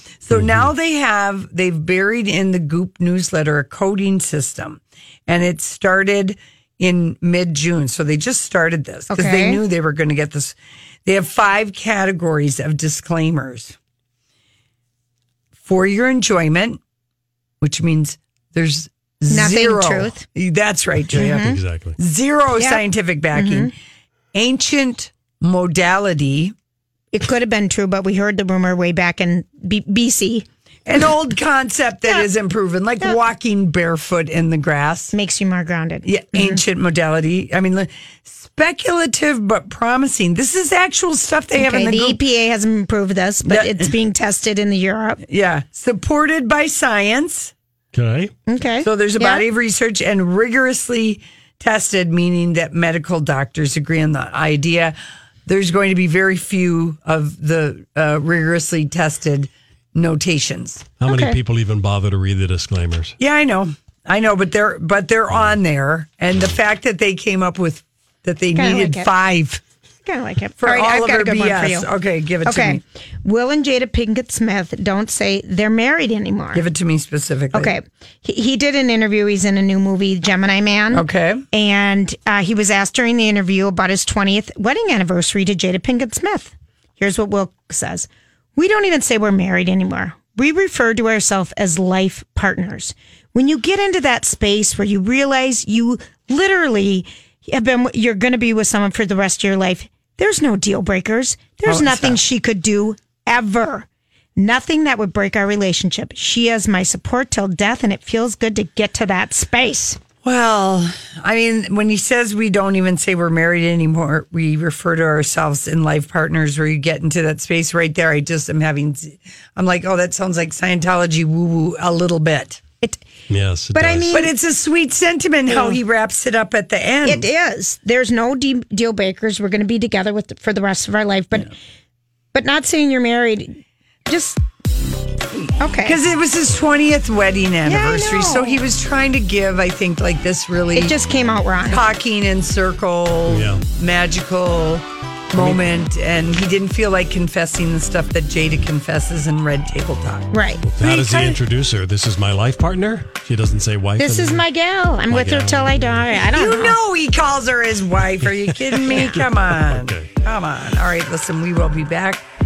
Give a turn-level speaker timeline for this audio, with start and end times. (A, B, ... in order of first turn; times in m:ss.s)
0:00.2-0:10.6 A
0:00.3-0:00.7 B
0:09.1-0:09.6 C
0:11.1-0:13.8 A
0:15.6-0:16.8 A
0:17.6-0:23.7 A
0:19.3-0:20.2 C
0:21.1-0:22.0 B
0:21.2-0:21.6 C
0:22.6-0:22.8 C
0:23.3-0:23.7 C
0:24.3-0:26.5 A
0:27.1-0:30.4 C
0:30.9-0:35.2 A
0:35.1-0:36.6 C
0:36.1-0:42.2 A
0:41.5-0:45.2 C
0:43.4-0:43.9 A
0:45.2-0:47.5 A
0:47.9-0:48.3 B
0:48.5-0:49.5 C
0:48.8-1:00.9 A
1:01.0-1:03.2 B
1:01.1-1:01.4 C
1:03.2-1:09.6 A
1:08.6-1:09.1 C
1:10.0-1:11.9 C
1:10.6-1:12.8 A
1:12.4-1:16.6 C
1:16.5-1:17.8 A
1:17.5-1:50.0 C
1:20.9-1:21.4 A
1:41.6-1:42.2 A
1:50.2-2:02.6 A
2:03.3-2:04.1 B
2:03.7-2:04.3 C
2:04.1-2:07.3 A
2:05.5-2:05.8 C
2:07.0-2:11.6 C
2:12.3-2:14.4 C
2:15.6-2:16.0 C
2:15.8-2:20.9 A
2:17.6-2:18.6 C
2:20.8-2:21.8 C
2:21.7-2:31.4 A
2:23.3-2:23.6 B
2:30.3-2:30.6 C
2:30.7-2:34.4 B
2:34.0-2:36.8 C
2:35.1-2:36.1 B
2:36.3-2:42.3 A
2:38.4-2:40.1 B
2:38.8-2:39.2 C